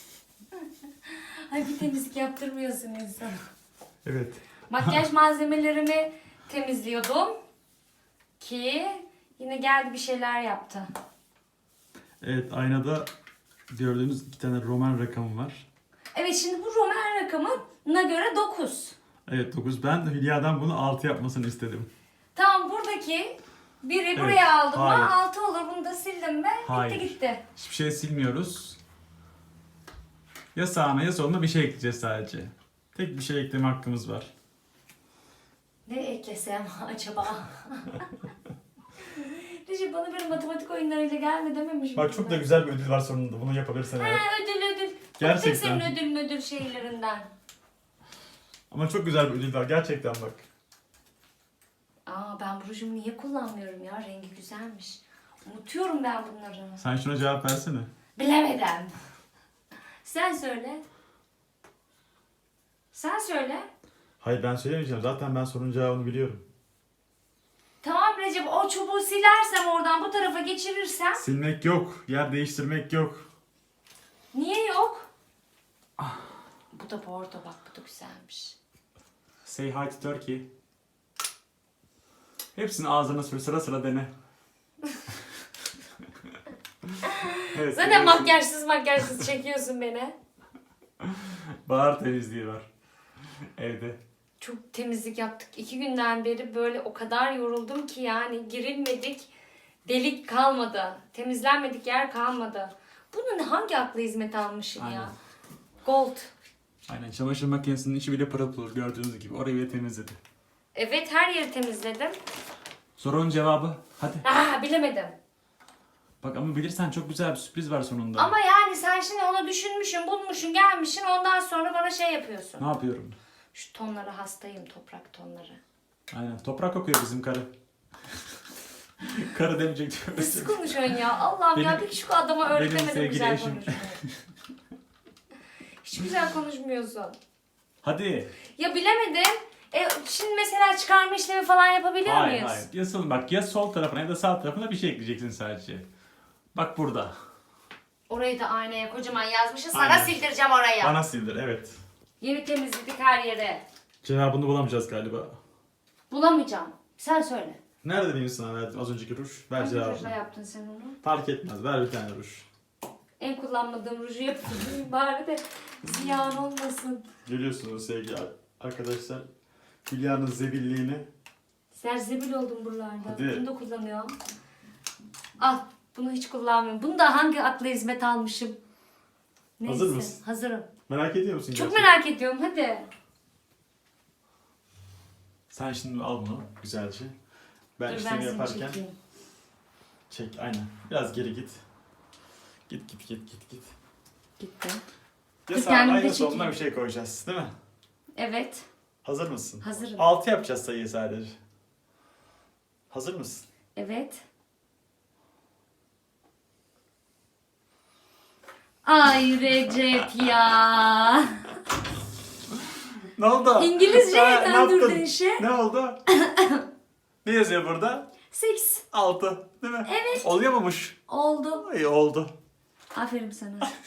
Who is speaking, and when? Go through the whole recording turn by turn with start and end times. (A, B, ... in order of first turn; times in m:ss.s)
0:00.6-0:03.4 A
0:04.0-0:04.9 B
0:04.7-0:07.4 A
0:08.4-0:10.9 A
0:12.2-0:13.1 B
0:13.7-0:15.6 B
0:16.1-0:19.0 A
0:19.3-0:21.9 B
0:22.4-0:27.4 A
0:24.2-0:25.1 B
0:26.6-0:28.8 B
0:30.5-0:34.3 B
0:35.9-0:38.0 A
0:39.0-0:42.4 A
0:42.0-0:44.2 B
0:44.0-0:47.3 A
0:45.2-0:45.9 B
0:48.7-0:50.4 B
0:52.1-0:56.8 A
0:56.8-0:57.9 B
0:58.2-0:58.9 A
1:00.0-1:00.8 A
1:02.9-1:03.7 A
1:04.2-1:06.4 B
1:07.8-1:11.2 A
1:11.2-1:13.3 B
1:14.3-1:15.1 A
1:16.7-1:18.6 A
1:19.4-1:20.5 B
1:22.6-1:24.1 B
1:27.0-1:30.2 A
1:27.5-1:28.4 B
1:31.0-1:32.7 B
1:33.6-1:34.0 B
1:34.4-1:39.3 A
1:39.8-1:45.1 A
1:44.8-1:45.2 B
1:45.8-1:46.3 A
1:46.9-1:50.2 B
1:50.7-1:52.2 A
1:53.0-1:54.2 B
1:54.2-1:55.2 A
1:56.2-1:58.3 B
1:58.2-2:02.7 A
2:02.6-2:03.2 B
2:03.5-2:05.6 A
2:06.1-2:07.5 B
2:09.0-2:11.0 B
2:10.1-2:14.0 A
2:11.5-2:11.9 B
2:12.5-2:14.2 B
2:15.8-2:17.2 A
2:17.8-2:18.3 B
2:18.5-2:22.7 A
2:22.0-2:25.9 B
2:26.5-2:27.2 B
2:28.1-2:31.0 A
2:29.7-2:30.2 B
2:30.8-2:31.8 B
2:32.2-2:33.6 A
2:34.0-2:35.4 B
2:36.1-2:37.6 A
2:37.8-2:40.2 B
2:39.6-2:41.0 A
2:41.0-2:42.5 B
2:43.2-2:47.1 A
2:47.2-2:49.3 B
2:49.9-2:51.1 B
2:51.7-2:54.1 A
2:53.0-2:53.4 B
2:55.4-2:58.6 A
2:59.6-3:00.7 A
2:59.7-3:00.2 B
3:00.9-3:01.9 B
3:01.5-3:02.9 A
3:05.5-3:07.1 B
3:07.8-3:08.8 B
3:07.9-3:09.0 A
3:10.1-3:11.6 B
3:12.7-3:13.7 B
3:14.4-3:14.8 A
3:15.5-3:17.5 B
3:15.5-3:16.6 A
3:18.2-3:18.7 A
3:19.0-3:21.4 B
3:19.6-3:20.1 A
3:22.9-3:23.5 B
3:23.8-3:24.2 A
3:28.8-3:31.5 A
3:33.2-3:36.0 B
3:33.6-3:35.4 A
3:36.1-3:36.6 A
3:37.2-3:38.1 B
3:38.3-3:38.8 A
3:38.9-3:41.0 B
3:39.8-3:40.3 A
3:41.1-3:41.6 A
3:41.6-3:42.3 B
3:42.9-3:43.7 A